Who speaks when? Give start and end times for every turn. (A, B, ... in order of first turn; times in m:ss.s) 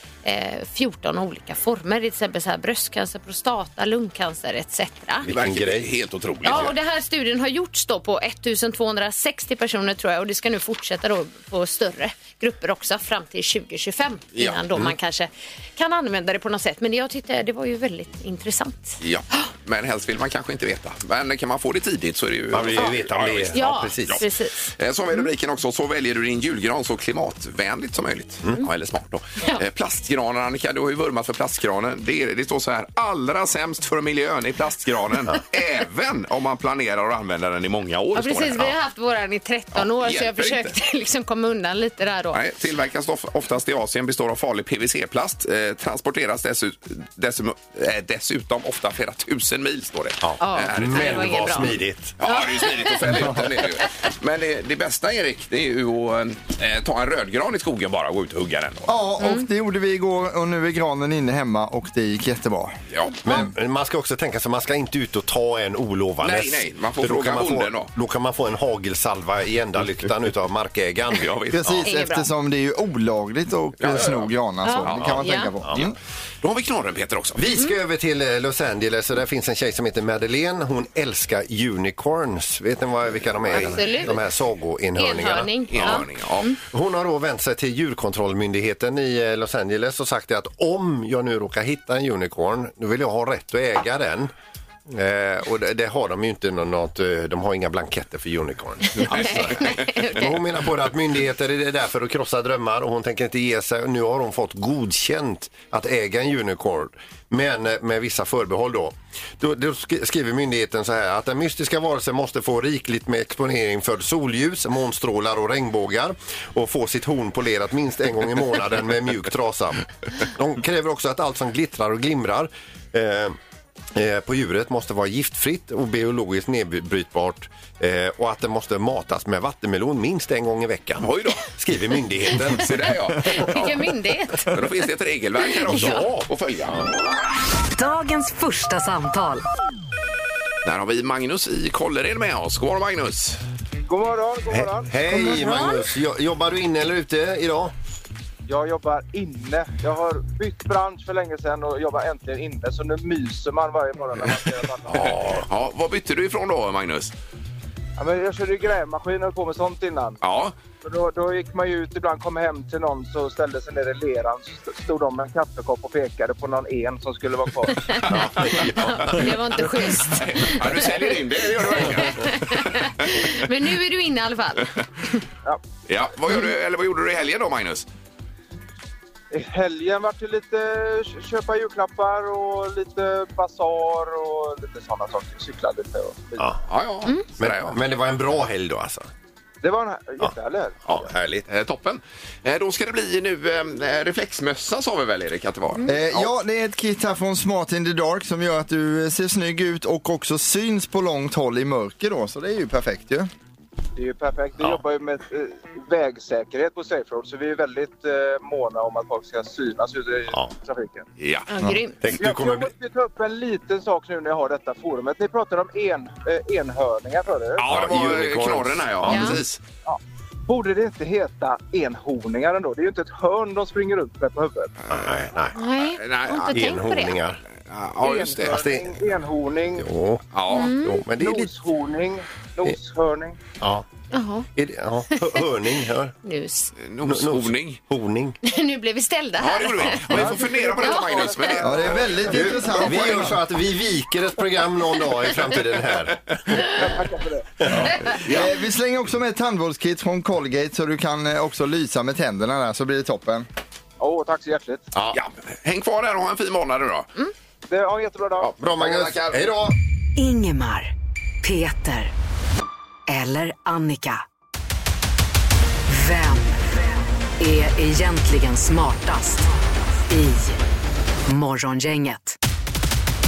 0:00.2-0:05.3 A
0:05.2-0:05.9 B
0:05.3-0:06.7 C
0:06.4-0:19.4 A
0:19.0-0:24.2 C
0:22.5-0:24.2 B
0:23.5-0:24.6 A
0:24.8-0:38.8 C
0:38.1-0:42.4 A
0:39.7-0:40.7 C
0:42.3-0:58.9 C
0:50.2-0:52.2 B
0:50.4-0:53.0 A
0:58.9-1:02.8 D
1:02.9-1:03.2 C
1:03.2-1:11.8 B
1:06.2-1:07.9 C
1:11.2-1:11.8 C
1:11.5-1:15.9 D
1:11.8-1:12.3 A
1:13.8-1:14.3 C
1:14.6-1:15.5 A
1:14.8-1:17.4 C
1:17.4-1:26.0 B
1:23.5-1:24.2 A
1:24.9-1:26.6 A
1:25.7-1:26.5 C
1:26.7-1:34.3 B
1:34.9-2:03.4 B
1:39.0-1:40.4 A
1:39.1-1:40.0 C
2:03.9-2:13.5 B
2:11.0-2:11.4 C
2:12.3-2:13.7 C
2:13.3-2:14.5 A
2:14.5-2:16.9 C
2:15.7-2:16.0 A
2:17.7-2:19.4 E
2:20.6-2:23.4 C
2:23.8-2:25.0 F
2:24.5-2:27.7 B
2:25.2-2:25.7 A
2:28.5-2:35.1 F
2:34.9-2:35.4 B
2:34.9-2:37.1 C
2:38.0-2:40.2 F
2:40.2-2:40.5 C
2:40.8-2:48.1 F
2:47.8-2:48.1 A
2:48.1-2:49.0 C
2:48.1-2:49.2 B
2:48.9-2:54.7 A
2:49.8-2:52.9 C
2:55.9-2:57.8 C
2:59.3-3:06.5 F
3:06.7-3:07.8 C
3:07.4-3:09.1 B
3:09.6-3:10.8 F
3:10.9-3:11.4 B
3:10.9-3:16.3 C
3:15.8-3:23.3 D
3:24.0-3:31.0 F
3:31.2-3:31.5 C
3:31.5-3:32.0 A
3:32.0-3:32.7 B
3:32.2-3:37.7 F
3:37.6-3:39.6 C
3:37.7-3:39.4 B
3:39.1-3:39.4 A
3:39.8-3:44.8 F
3:44.8-3:45.1 C
3:44.9-3:45.6 B
3:45.6-3:47.2 A
3:46.0-3:46.6 C
3:46.5-3:47.4 B
3:47.6-3:48.6 C
3:48.0-3:49.9 F
3:48.5-3:49.0 B
3:49.8-3:51.5 B
3:50.3-3:50.7 C
3:50.5-3:51.0 A
3:51.1-3:53.4 F
3:53.6-3:53.8 B
3:54.1-3:54.5 A
3:54.6-3:56.1 B
3:55.2-3:55.4 A
3:56.2-3:56.7 A
3:56.8-3:57.8 C
3:57.0-3:58.4 B
3:58.4-4:01.6 A
3:59.4-4:02.3 C
3:59.9-4:00.3 B
4:00.1-4:02.8 F
4:01.6-4:03.4 D
4:02.2-4:06.7 B
4:06.6-4:07.7 F
4:07.6-4:08.0 B
4:07.7-4:13.5 D
4:08.1-4:08.5 C
4:14.0-4:14.9 F
4:15.1-4:17.1 C
4:17.7-4:18.5 F
4:18.4-4:19.5 C
4:18.6-4:19.7 B
4:20.2-4:20.9 E
4:21.4-4:22.1 E
4:23.1-4:24.2 E
4:25.9-4:26.9 E
4:27.4-4:29.5 E
4:30.0-4:30.6 E
4:31.3-4:32.4 E